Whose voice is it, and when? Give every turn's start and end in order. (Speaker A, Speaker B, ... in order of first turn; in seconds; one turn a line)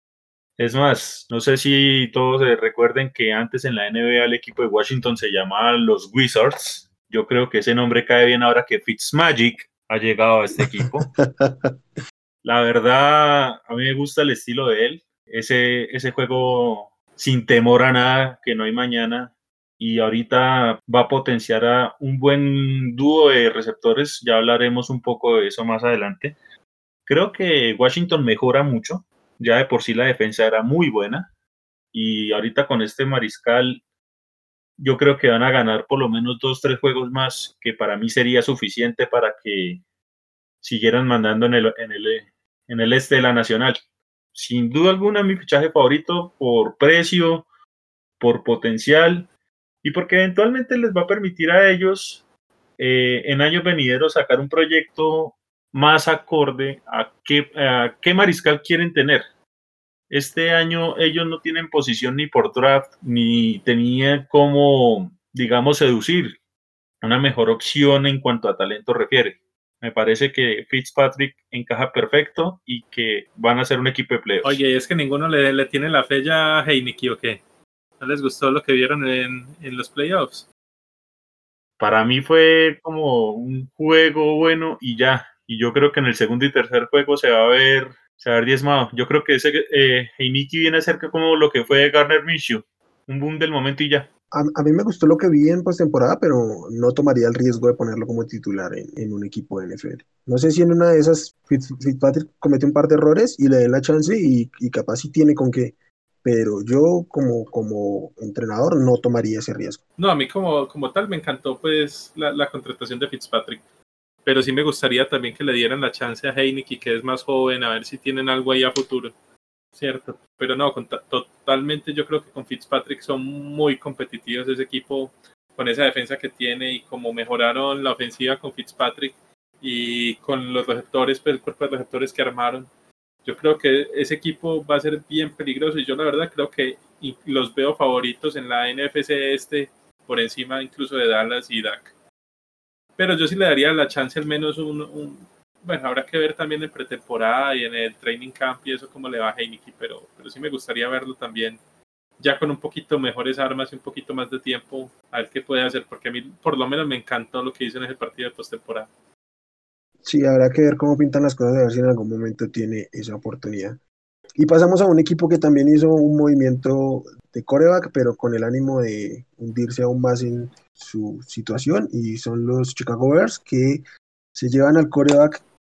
Speaker A: 0.6-11.2
Speaker B: 10.6-11.8
Speaker A: 12.4-26.4
Speaker A: 27.1-31.3
Speaker A: 31.9-33.8
Speaker A: 34.8-39.8
Speaker A: 40.6-43.8
Speaker A: 44.4-47.5
Speaker A: 48.2-49.3
Speaker A: 49.8-52.2
Speaker A: 52.8-59.2
Speaker A: 60.1-66.4
Speaker A: 67.0-74.6
Speaker C: 74.4-77.4
Speaker C: 78.0-80.5
Speaker A: 81.8-94.1
Speaker B: 94.3-109.8
Speaker C: 110.0-113.6
Speaker C: 114.2-119.1
Speaker C: 119.8-132.7
Speaker C: 133.2-141.9
Speaker C: 143.0-151.6
Speaker C: 152.2-158.9
Speaker B: 160.0-163.8
Speaker B: 164.4-173.8
Speaker B: 174.3-175.4